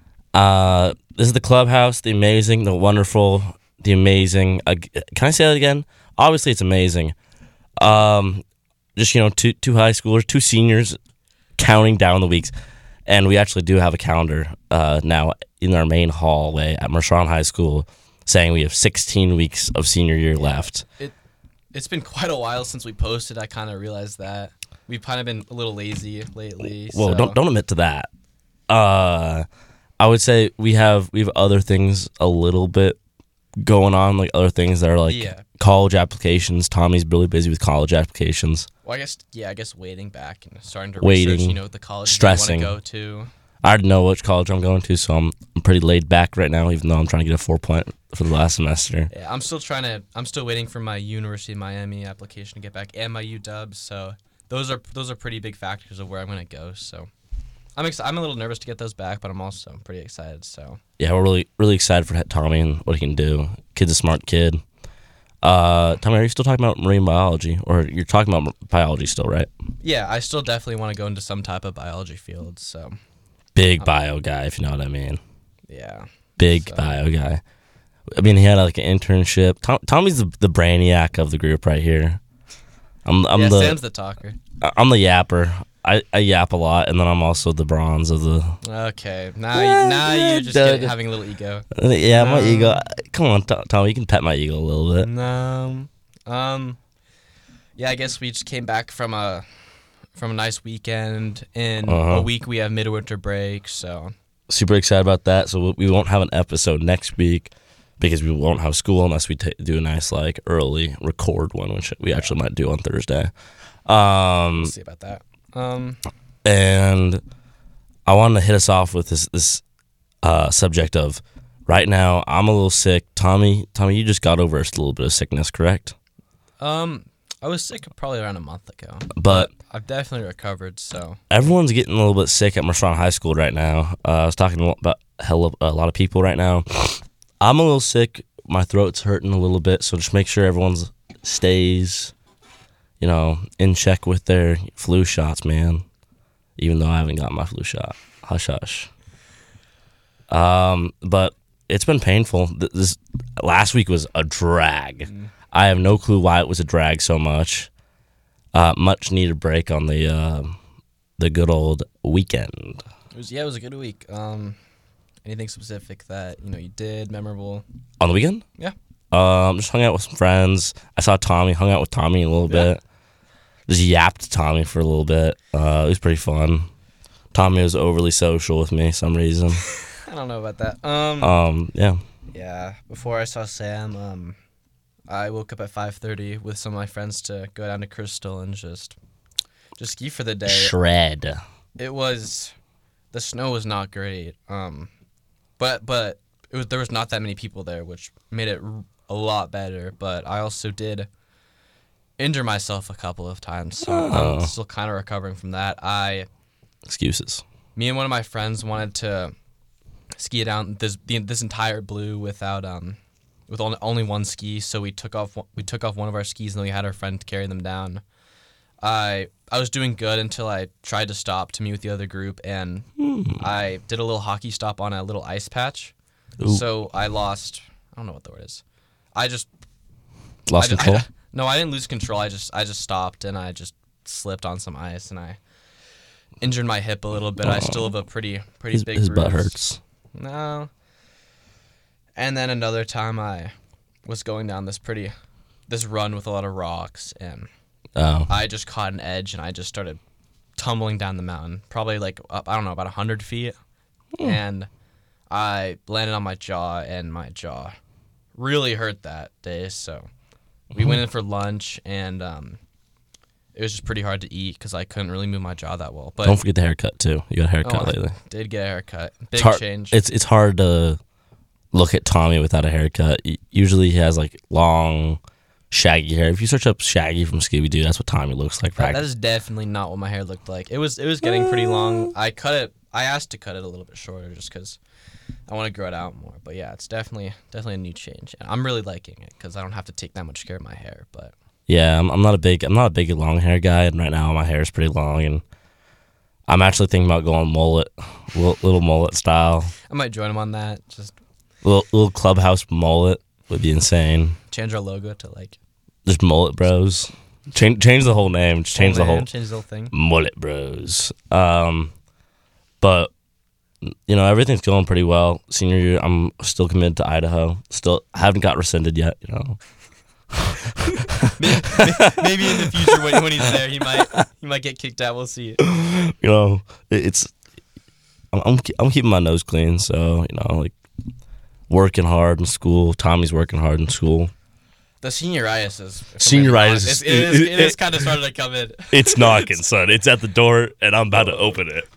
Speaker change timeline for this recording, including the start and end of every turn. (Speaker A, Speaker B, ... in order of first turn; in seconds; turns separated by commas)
Speaker A: 0.3-7.1, Speaker A: 7.8-8.4, Speaker A: 8.9-11.0, Speaker A: 11.6-12.5, Speaker A: 13.1-20.8, Speaker B: 20.4-21.1, Speaker B: 21.7-27.4, Speaker A: 26.6-28.1, Speaker A: 28.7-29.4, Speaker A: 30.0-33.0, Speaker A: 33.6-38.7, Speaker B: 35.0-35.4, Speaker B: 38.8-43.3, Speaker A: 41.0-42.8, Speaker A: 43.6-49.1, Speaker B: 49.1-57.1, Speaker B: 57.8-60.8, Speaker A: 61.0-64.6, Speaker A: 65.4-69.5, Speaker B: 69.8-72.9, Speaker A: 73.5-75.2, Speaker B: 75.7-77.0, Speaker A: 76.4-77.4, Speaker A: 78.1-82.2, Speaker A: 83.0-83.8, Speaker B: 83.3-84.4, Speaker A: 84.6-88.6, Speaker B: 88.6-92.8, Speaker A: 89.5-91.0, Speaker A: 91.7-95.1, Speaker B: 95.0-96.8, Speaker B: 97.8-99.5, Speaker B: 100.1-104.1, Speaker A: 101.8-102.3, Speaker A: 104.5-113.3, Speaker A: 113.8-114.7, Speaker B: 114.5-116.0, Speaker A: 116.4-117.2, Speaker A: 118.0-119.6, Speaker A: 120.2-125.9, Speaker B: 126.6-131.3, Speaker A: 129.1-129.5, Speaker A: 131.3-142.1, Speaker A: 143.0-145.8, Speaker A: 146.6-148.9, Speaker A: 150.3-157.7, Speaker B: 155.0-155.3, Speaker A: 158.5-160.6, Speaker A: 161.2-162.8, Speaker B: 163.1-164.6, Speaker B: 165.2-167.6, Speaker A: 168.0-168.4, Speaker A: 169.1-172.8, Speaker A: 173.7-176.7, Speaker A: 177.3-179.6, Speaker B: 179.7-181.3, Speaker A: 181.2-182.0, Speaker B: 182.3-184.4, Speaker B: 185.1-188.9, Speaker B: 189.8-190.7, Speaker A: 190.5-191.4, Speaker B: 191.8-192.5, Speaker B: 193.1-194.9, Speaker B: 195.6-201.1, Speaker B: 202.2-206.3, Speaker A: 203.8-204.5, Speaker A: 206.8-207.4, Speaker B: 207.8-209.3, Speaker B: 210.2-218.0, Speaker B: 218.8-222.9, Speaker A: 223.0-223.4, Speaker B: 223.4-225.9, Speaker B: 226.4-228.6, Speaker B: 229.1-229.5, Speaker A: 230.5-231.1, Speaker B: 230.6-235.4, Speaker B: 236.4-239.5, Speaker A: 237.4-237.9, Speaker A: 238.7-239.8, Speaker B: 240.1-240.7, Speaker B: 242.2-243.5, Speaker B: 244.0-245.1, Speaker B: 245.7-247.5, Speaker A: 247.9-248.3, Speaker B: 248.3-250.0, Speaker B: 250.6-253.6, Speaker B: 254.2-254.7, Speaker B: 255.3-257.8, Speaker B: 258.4-260.1, Speaker B: 260.7-262.6, Speaker B: 263.5-266.4, Speaker A: 266.2-268.1, Speaker B: 267.6-270.0, Speaker A: 269.3-271.0, Speaker A: 271.7-275.2, Speaker A: 275.7-279.0, Speaker B: 278.8-284.8, Speaker A: 281.4-282.1, Speaker B: 285.5-291.3, Speaker A: 291.7-295.4, Speaker A: 296.5-299.7, Speaker B: 299.9-301.1, Speaker A: 301.6-304.4, Speaker B: 304.5-305.6, Speaker A: 306.1-309.3, Speaker B: 308.7-309.9, Speaker A: 309.9-311.9, Speaker A: 312.8-313.1, Speaker A: 314.1-319.6, Speaker A: 321.2-322.9, Speaker B: 321.4-325.6, Speaker A: 325.6-327.3, Speaker A: 328.3-330.7, Speaker A: 331.7-334.3, Speaker B: 335.0-339.6, Speaker A: 336.2-337.8, Speaker A: 338.9-341.9